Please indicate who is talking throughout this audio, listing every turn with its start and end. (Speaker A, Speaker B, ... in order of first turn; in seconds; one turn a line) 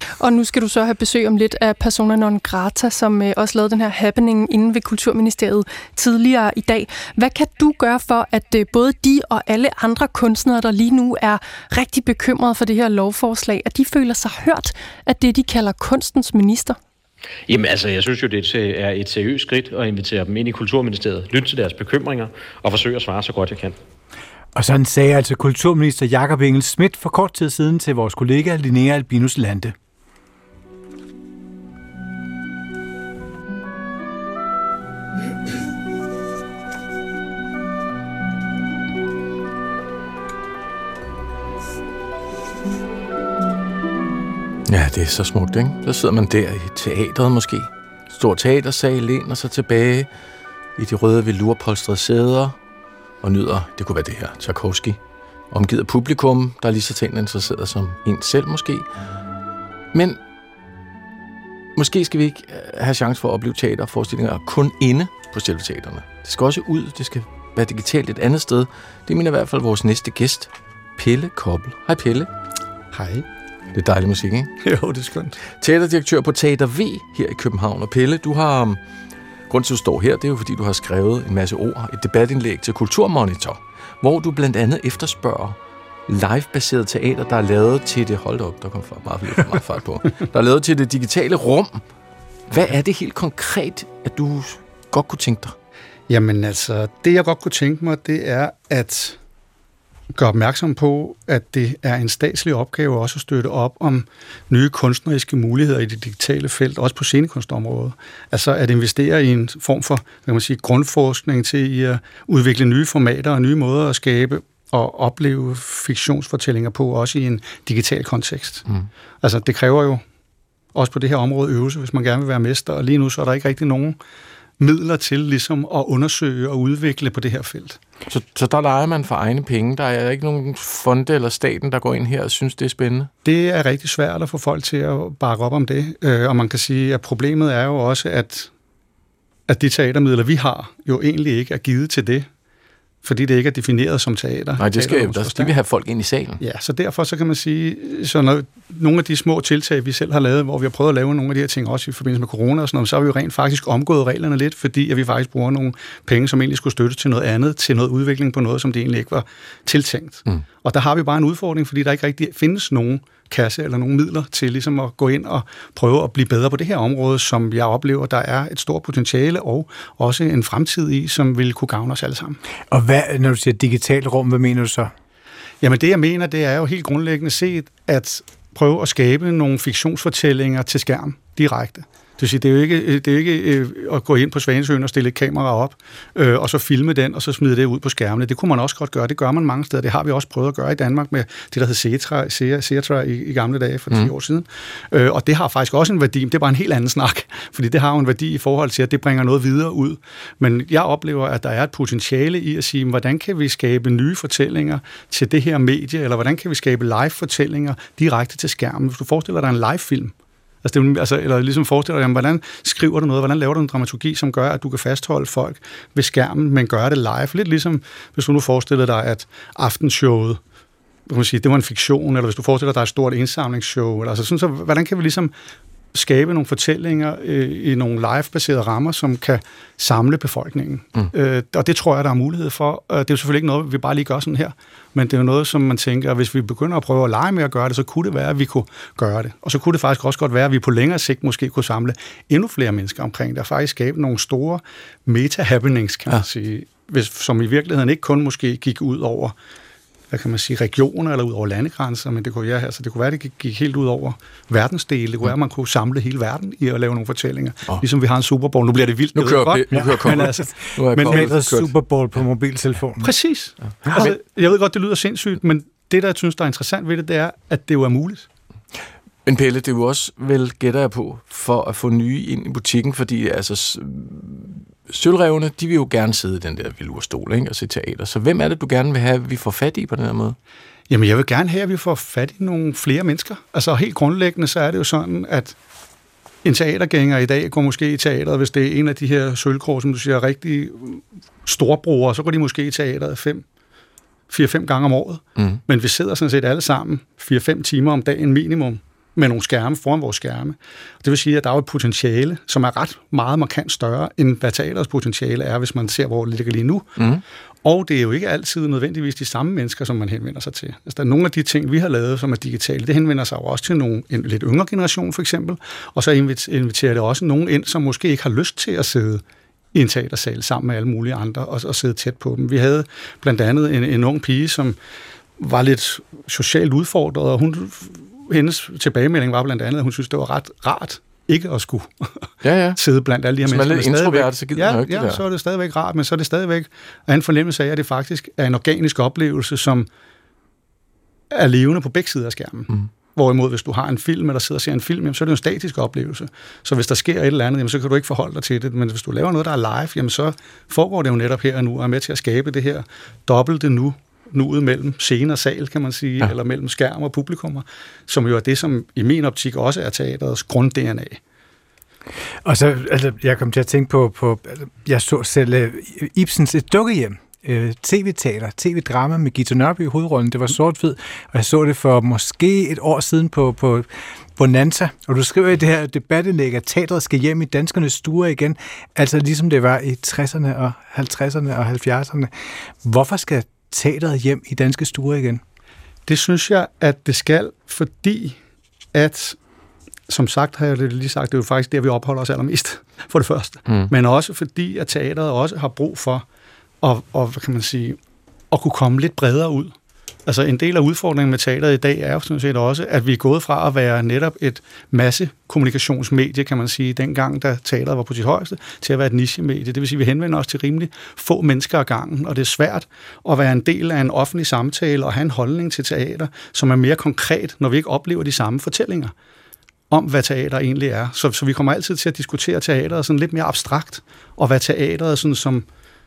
Speaker A: 0.2-16.8
Speaker B: 17.5-23.8
Speaker C: 24.5-29.7
Speaker D: 44.7-50.1
Speaker D: 50.8-52.5
Speaker D: 53.2-55.0
Speaker D: 55.5-58.9
Speaker D: 59.9-60.2
Speaker D: 61.8-72.3
Speaker E: 72.9-73.2
Speaker D: 73.7-74.5
Speaker E: 74.6-75.4
Speaker D: 75.6-78.8
Speaker D: 79.5-91.8
Speaker D: 92.5-95.5
Speaker E: 96.1-99.2
Speaker E: 100.1-118.7
Speaker E: 119.2-120.0
Speaker E: 120.7-124.0
Speaker E: 124.6-127.8
Speaker D: 128.1-133.1
Speaker E: 133.2-138.5
Speaker E: 139.5-142.3
Speaker E: 143.0-145.5
Speaker D: 144.6-146.4
Speaker E: 146.4-172.4
Speaker C: 172.7-174.9
Speaker E: 175.6-220.4
Speaker E: 221.1-225.3
Speaker E: 225.9-249.3
Speaker E: 250.1-261.3
Speaker D: 259.1-261.7
Speaker C: 259.7-260.1
Speaker C: 261.0-263.1
Speaker E: 263.0-268.3
Speaker D: 263.8-264.1
Speaker D: 269.2-280.4
Speaker E: 280.9-285.6
Speaker E: 286.4-293.4
Speaker E: 294.3-306.9
Speaker E: 307.6-319.2
Speaker E: 319.7-324.8
Speaker E: 325.4-332.1
Speaker D: 332.4-332.8
Speaker E: 332.8-339.9
Speaker D: 333.4-335.2
Speaker E: 341.3-361.2
Speaker C: 362.4-382.3
Speaker C: 382.8-385.4
Speaker E: 386.1-388.4
Speaker E: 388.9-389.4
Speaker E: 390.1-396.2
Speaker E: 396.8-398.0
Speaker E: 398.5-399.7
Speaker E: 400.2-419.1
Speaker E: 419.9-425.6